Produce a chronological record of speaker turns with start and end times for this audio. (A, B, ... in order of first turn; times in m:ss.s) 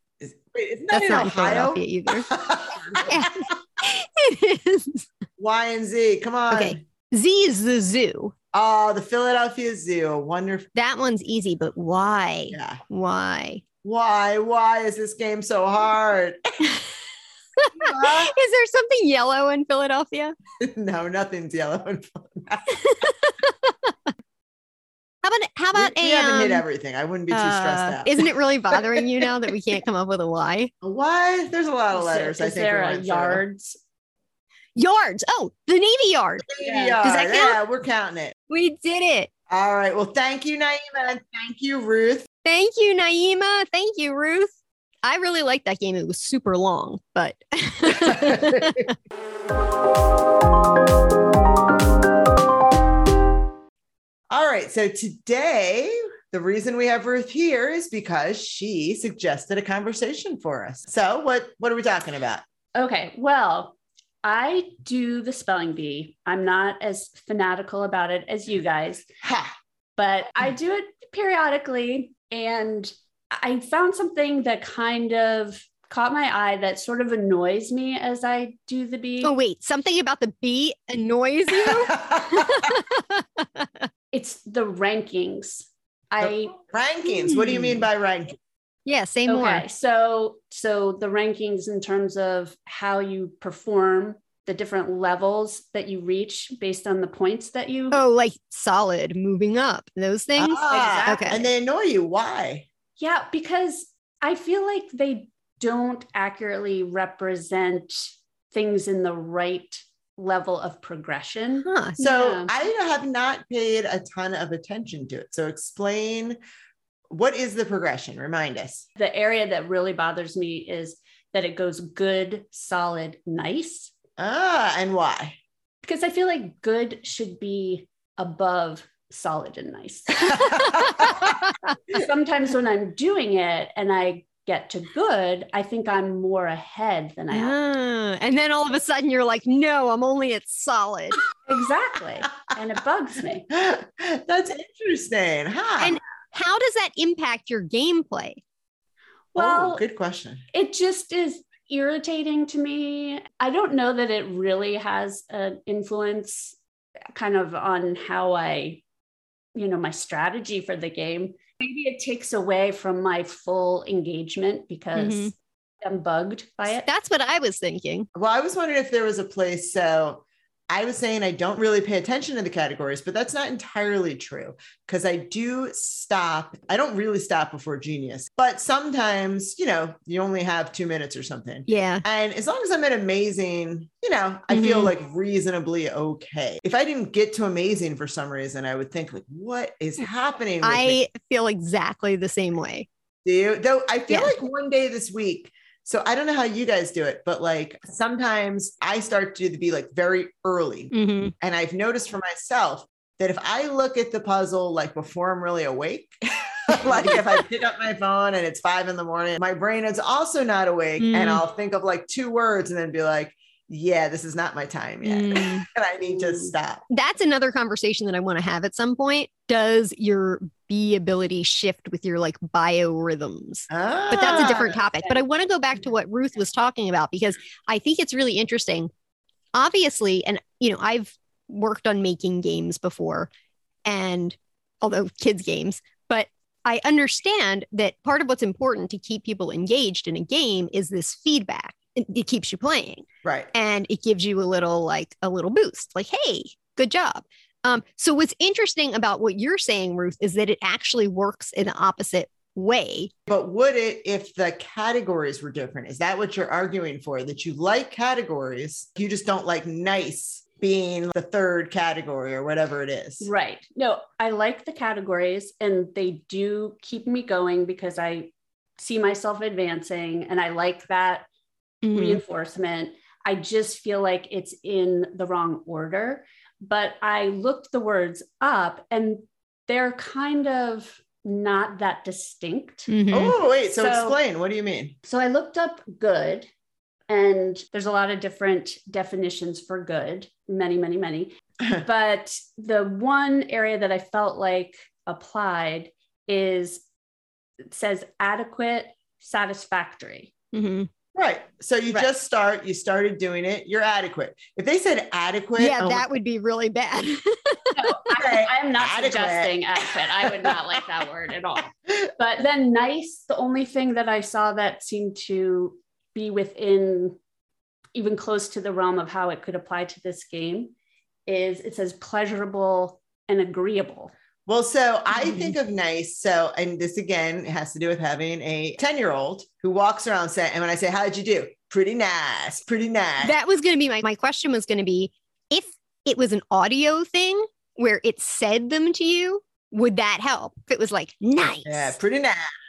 0:00.2-0:03.3 A
0:00.9-0:02.3 B
0:03.0-0:05.1 B
0:05.4-0:06.8 A
0:06.5-0:08.3 B
0:08.5-0:10.7 A
0:10.8-0:13.6 B
0:12.5-0:12.8 A
0:13.8-0:16.4 A
0:17.6-0:20.4 B
0:17.8-0:18.4 A
0:20.6-0:22.8 A
0:22.7-0:23.9 B
0:25.2-0:26.6 B
0:25.7-0:29.3 A
0:27.3-0:30.7 B
0:30.8-0:33.4 A
0:31.9-0:33.8 C
0:34.8-0:36.5 B
0:36.4-0:38.3 A
0:36.6-0:37.0 C
0:37.0-0:37.6 B
0:38.5-0:39.3 B
0:39.5-0:42.3 A
0:42.4-0:48.9 B
0:47.9-0:48.9 A
0:54.3-1:02.4 A
1:02.8-1:09.1 C
1:09.2-1:09.5 A
1:10.0-1:19.3 C
1:19.2-1:23.9 B
1:21.6-1:22.7 A
1:24.1-1:26.5 C
1:26.2-1:28.4 A
1:27.1-1:27.9 B
1:28.9-1:29.6 B
1:29.3-1:38.0 C
1:37.9-1:41.4 B
1:40.4-1:42.7 A
1:40.6-1:41.5 C
1:43.0-1:52.5 C
1:51.6-1:52.0 B
1:52.0-1:56.4 A
1:57.1-1:58.9 A
1:59.0-2:03.9 C
2:04.2-2:05.4 A
2:05.8-2:11.3 C
2:10.3-2:11.3 A
2:10.4-2:11.5 B
2:11.9-2:17.6 C
2:17.3-2:21.2 B
2:21.5-2:23.5 C
2:23.5-2:26.0 A
2:25.8-2:28.4 B
2:29.3-2:29.8 C
2:29.4-2:30.4 A
2:30.5-2:36.6 C
2:37.2-2:38.8 C
2:39.6-2:46.9 C
2:45.0-2:45.3 B
2:46.8-2:48.1 B
2:48.2-3:11.0 A
3:01.7-3:02.0 B
3:04.5-3:04.9 B
3:10.6-3:12.9 B
3:13.2-3:36.8 A
3:14.1-3:14.3 B
3:20.9-3:21.3 B
3:31.0-3:31.4 B
3:35.0-3:35.7 B
3:36.1-3:36.5 C
3:36.9-3:48.9 B
3:43.7-3:44.8 A
3:44.2-3:45.2 C
3:49.5-3:53.3 B
3:53.9-4:13.1 B
4:03.2-4:03.5 A
4:13.3-4:23.3 A
4:23.2-4:31.3 C
4:31.8-4:32.2 B
4:31.9-4:42.9 C
4:42.9-4:43.4 B
4:43.1-4:45.0 A
4:43.7-4:44.2 C
4:45.0-4:46.5 C
4:47.1-4:56.8 C
4:57.7-5:00.3 C
5:00.5-5:00.9 B
5:01.2-5:06.1 A
5:05.6-5:07.9 B
5:07.7-5:17.2 C
5:08.1-5:10.8 A
5:18.0-5:20.7 C
5:21.3-5:24.1 C
5:24.5-5:33.4 A
5:33.2-5:42.0 B
5:41.6-5:42.4 A